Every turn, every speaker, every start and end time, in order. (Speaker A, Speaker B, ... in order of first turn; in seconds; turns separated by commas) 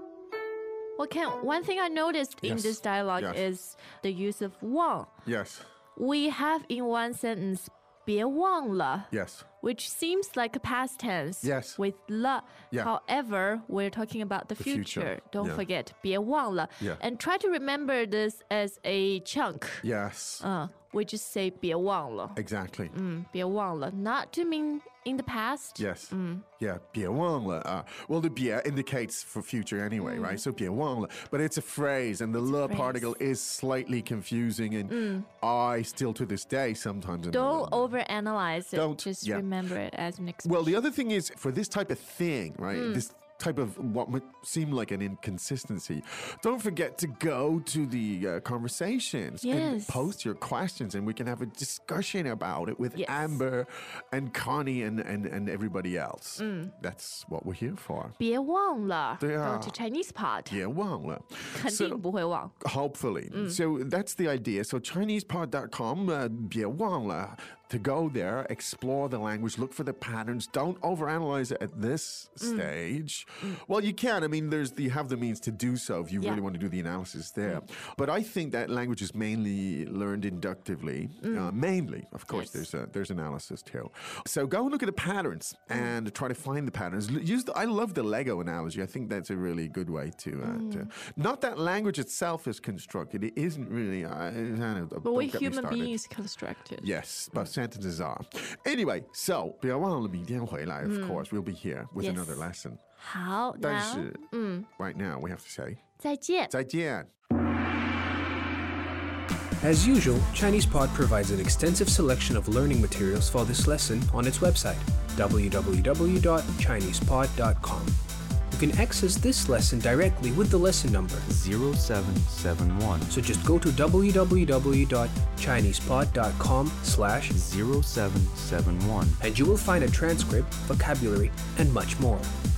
Speaker A: 1.0-5.1, Speaker B: 2.4-3.4, Speaker B: 5.2-5.7, Speaker A: 6.0-19.9, Speaker B: 9.1-9.5, Speaker B: 11.4-11.8, Speaker B: 14.6-15.6, Speaker B: 19.8-20.4, Speaker A: 20.4-26.4, Speaker B: 22.4-22.9, Speaker B: 25.8-38.0, Speaker A: 30.0-30.4, Speaker A: 32.4-33.2, Speaker A: 34.9-35.3, Speaker A: 37.3-40.8, Speaker B: 38.7-39.5, Speaker B: 40.4-58.2, Speaker A: 42.7-43.1, Speaker A: 49.4-50.1, Speaker A: 53.0-53.4, Speaker A: 56.4-56.7, Speaker A: 58.2-60.6, Speaker B: 59.2-59.8, Speaker B: 60.5-62.0, Speaker A: 61.5-62.5, Speaker B: 62.6-96.0, Speaker A: 63.3-63.6, Speaker A: 72.4-72.7, Speaker A: 81.2-81.5, Speaker A: 82.3-82.7, Speaker A: 90.4-90.9, Speaker A: 95.0-97.5, Speaker B: 96.8-102.8, Speaker A: 100.8-101.3, Speaker A: 102.0-102.5, Speaker A: 103.0-104.7, Speaker B: 103.6-105.8, Speaker A: 106.0-106.5, Speaker B: 106.5-107.1, Speaker C: 109.6-117.9, Speaker C: 118.5-121.3, Speaker D: 121.3-123.1, Speaker C: 123.1-127.4, Speaker D: 127.3-129.2, Speaker C: 129.2-132.3